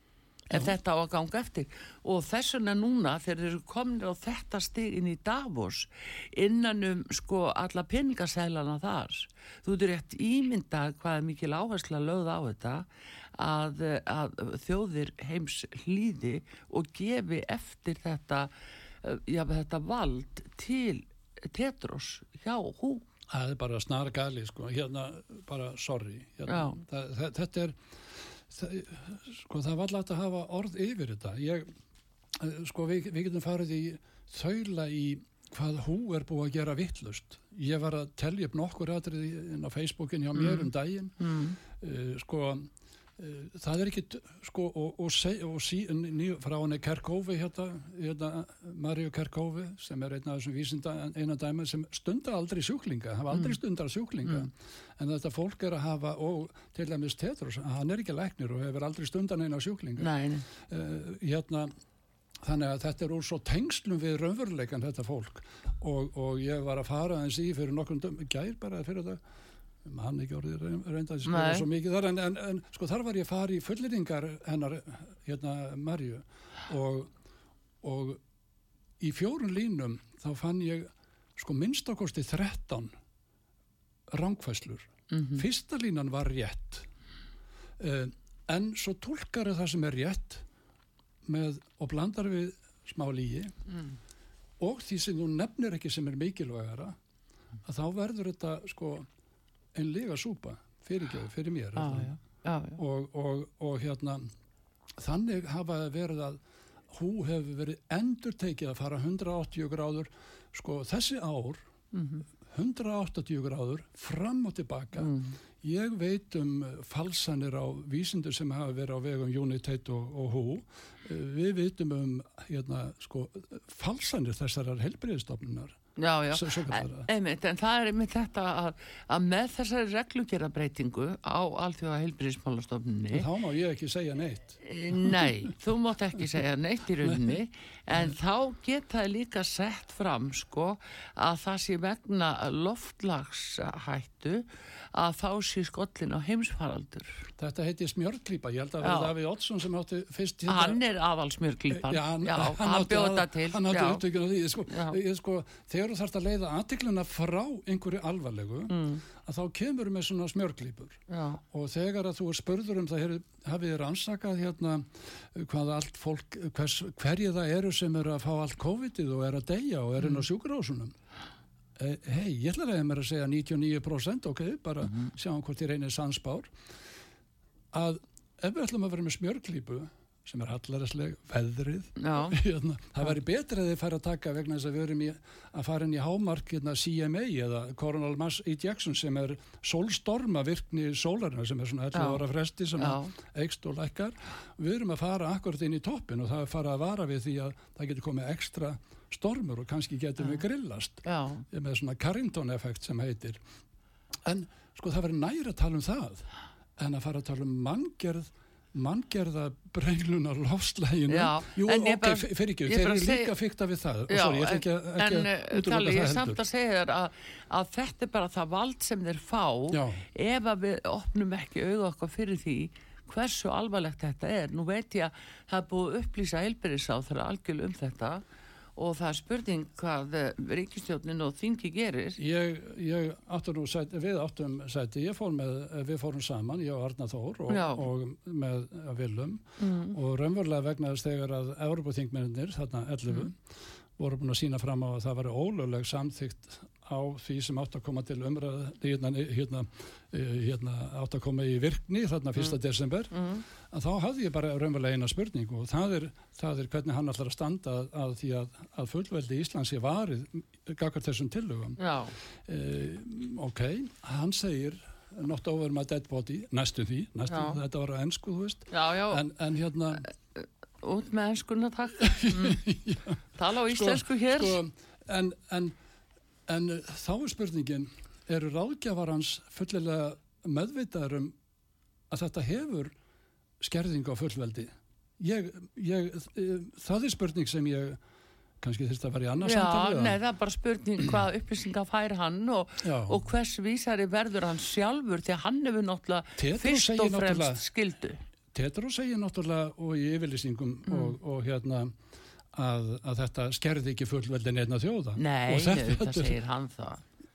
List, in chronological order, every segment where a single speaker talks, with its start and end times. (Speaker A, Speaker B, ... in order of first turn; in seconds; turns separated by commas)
Speaker A: 0.5-18.5, Speaker A: 19.0-23.1, Speaker B: 23.3-31.7, Speaker A: 26.5-26.8, Speaker B: 32.4-61.7, Speaker A: 40.4-40.7, Speaker A: 41.2-41.6, Speaker A: 53.3-53.6, Speaker A: 60.0-60.5, Speaker B: 62.4-69.2, Speaker B: 69.8-77.1, Speaker A: 71.3-71.7, Speaker B: 77.8-78.2, Speaker B: 79.0-82.9, Speaker B: 84.1-86.9, Speaker A: 85.1-85.4, Speaker B: 87.8-90.4, Speaker B: 91.2-93.6, Speaker B: 94.6-97.0, Speaker B: 97.6-99.1, Speaker B: 99.7-102.1, Speaker A: 101.8-102.8, Speaker B: 102.8-104.3, Speaker B: 105.0-111.6, Speaker A: 111.9-112.2, Speaker B: 112.4-125.8, Speaker A: 115.0-115.4, Speaker A: 126.0-133.3, Speaker B: 126.3-127.1, Speaker B: 133.1-135.3, Speaker A: 134.6-147.3, Speaker B: 137.0-137.4, Speaker B: 147.4-150.8, Speaker A: 148.8-149.1, Speaker A: 150.5-154.0, Speaker B: 151.7-161.0, Speaker A: 154.7-155.0, Speaker A: 158.7-159.0, Speaker A: 161.1-161.4, Speaker B: 161.5-170.9, Speaker B: 171.8-176.5, Speaker B: 177.7-203.4, Speaker A: 182.0-182.4, Speaker A: 191.9-192.2, Speaker A: 192.8-193.1, Speaker A: 201.1-201.4, Speaker B: 204.2-216.4, Speaker A: 211.1-213.3, Speaker A: 214.1-228.2, Speaker B: 219.7-220.0, Speaker A: 228.8-232.2, Speaker B: 232.2-243.4, Speaker A: 237.5-237.8, Speaker A: 239.6-240.0, Speaker B: 244.0-261.8, Speaker A: 253.1-253.4, Speaker A: 261.8-262.1, Speaker B: 262.4-270.1, Speaker A: 267.3-267.6, Speaker A: 268.7-269.2, Speaker A: 270.4-272.6, Speaker B: 272.0-275.8, Speaker A: 273.4-274.6, Speaker B: 276.5-281.4, Speaker B: 282.1-282.9, Speaker B: 283.6-288.0, Speaker B: 288.6-290.2, Speaker A: 289.4-298.2, Speaker B: 292.8-293.2, Speaker B: 296.4-297.6, Speaker B: 298.5-302.0, Speaker A: 300.9-301.1, Speaker B: 302.5-306.4, Speaker A: 305.2-307.0